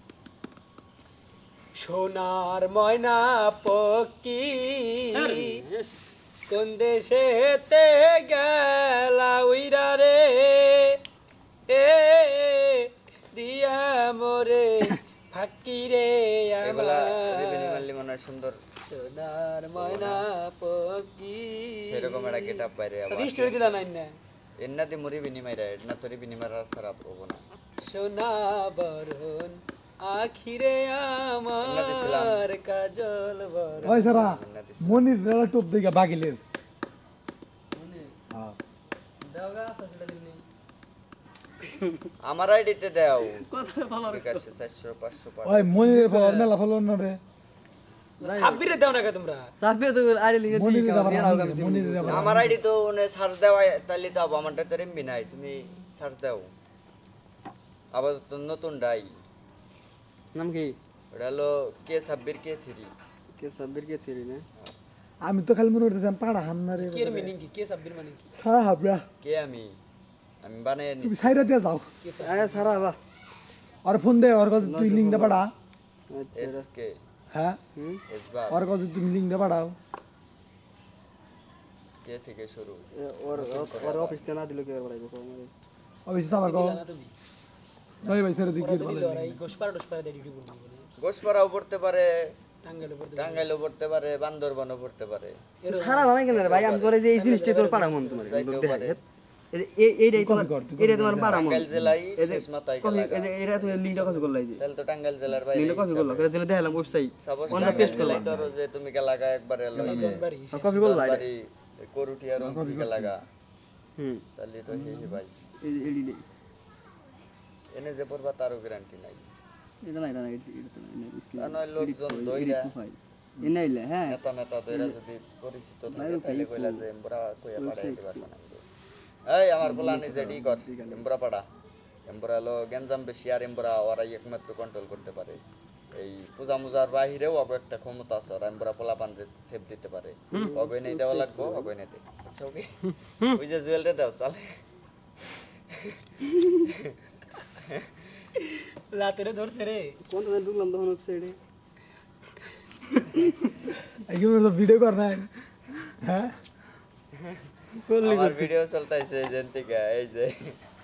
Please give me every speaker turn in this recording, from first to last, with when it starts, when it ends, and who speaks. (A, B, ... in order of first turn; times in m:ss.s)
0:01.8-0:05.6 A
0:05.2-0:05.6 B
0:06.5-0:11.0 A
0:11.7-0:17.8 A
0:16.6-0:18.6 C
0:18.8-0:22.6 A
0:19.8-0:20.2 C
0:21.8-0:23.8 C
0:23.1-0:24.1 A
0:24.6-0:27.4 C
0:27.8-0:34.1 A
0:31.6-0:32.4 C
0:33.7-0:35.0 C
0:33.8-0:36.4 D
0:37.7-0:38.1 B
0:38.3-0:38.6 D
0:39.2-0:40.4 B
0:42.2-0:43.5 C
0:43.2-0:44.5 B
0:44.0-0:45.8 C
0:45.4-0:47.2 D
0:45.8-0:46.5 B
0:48.2-0:48.7 B
0:48.2-0:49.5 A
0:49.6-0:52.4 B
0:50.5-0:52.6 D
0:52.1-0:56.5 C
0:57.9-0:59.1 C
1:00.3-1:00.8 B
1:01.1-1:02.9 C
1:03.4-1:04.4 B
1:05.2-1:07.3 D
1:06.8-1:08.3 A
1:08.4-1:09.1 D
1:09.2-1:09.8 C
1:10.4-1:11.5 C
1:11.0-1:11.9 D
1:12.0-1:12.8 A
1:12.2-1:13.0 B
1:13.8-1:15.5 D
1:14.6-1:15.4 B
1:16.1-1:16.7 B
1:16.3-1:17.0 C
1:17.3-1:17.6 D
1:17.8-1:18.0 B
1:18.1-1:18.6 C
1:18.5-1:19.8 D
1:22.0-1:24.2 C
1:22.9-1:25.5 B
1:26.1-1:26.8 D
1:26.3-1:27.1 A
1:28.0-1:29.4 D
1:28.6-1:30.9 A
1:31.0-1:32.4 C
1:32.6-1:33.5 A
1:33.2-1:35.5 C
1:35.6-1:36.2 A
1:35.7-1:39.0 B
1:36.2-1:37.0 C
1:37.1-1:38.4 A
1:38.2-1:39.0 C
1:39.5-1:44.6 B
1:40.2-1:42.0 D
1:41.3-1:44.0 C
1:44.0-1:44.3 A
1:44.6-1:46.3 C
1:45.5-1:48.4 B
1:47.2-1:50.3 C
1:47.5-1:48.5 D
1:49.8-1:50.9 A
1:49.8-1:50.2 D
1:50.5-1:51.3 B
1:50.8-1:53.2 C
1:52.4-1:53.2 D
1:54.0-1:54.2 B
1:54.4-1:55.3 C
1:54.7-1:55.2 D
1:55.6-1:56.2 B
1:57.8-1:59.3 C
1:59.8-2:04.2 B
2:01.4-2:02.8 C
2:04.1-2:08.6 C
2:04.7-2:05.0 B
2:05.9-2:06.9 B
2:07.6-2:08.3 B
2:09.3-2:11.4 C
2:09.6-2:11.1 B
2:12.1-2:15.4 C
2:16.0-2:24.6 C
2:20.3-2:21.7 B
2:25.7-2:26.0 C
2:26.6-2:26.9 C
2:27.7-2:28.1 C
2:28.4-2:30.0 A
2:30.1-2:31.4 B
2:34.0-2:35.3 D
2:36.0-2:36.4 D
2:37.8-2:38.5 B
2:38.0-2:40.6 C